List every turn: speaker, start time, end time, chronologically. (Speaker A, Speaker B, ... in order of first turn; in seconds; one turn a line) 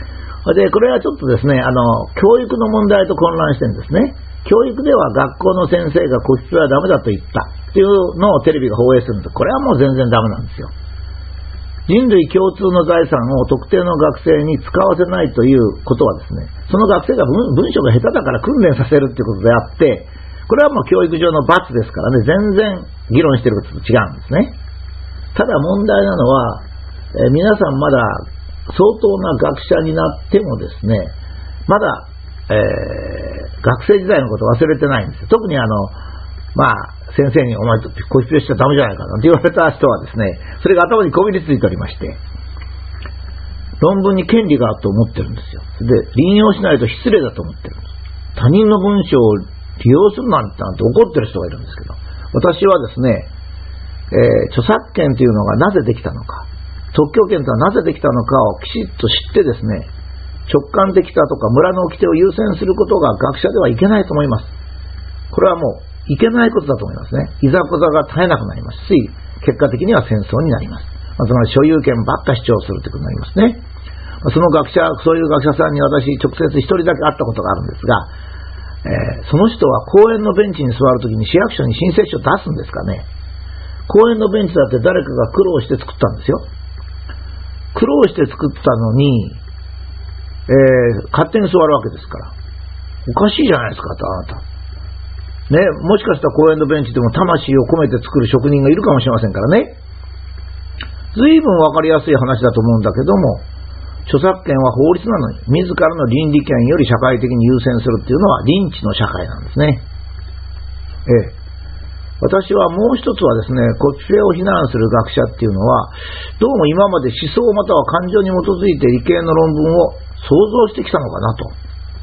Speaker A: 0.5-10.7
Speaker A: 11.9-24.6
Speaker A: 25.4-26.6
Speaker A: 27.1-31.2
Speaker A: 31.7-36.0
Speaker A: 36.5-42.2
Speaker A: 43.8-53.3
Speaker A: 54.1-59.9
Speaker A: 60.5-64.5
Speaker A: 65.3-73.6
Speaker A: 74.2-78.1
Speaker A: 78.8-83.1
Speaker A: 83.9-86.4
Speaker A: 87.7-89.4
Speaker A: 90.5-92.3
Speaker A: 93.1-94.4
Speaker A: 95.5-99.8
Speaker A: 101.1-103.4
Speaker A: 104.1-109.8
Speaker A: 111.1-111.4
Speaker A: 112.2-121.5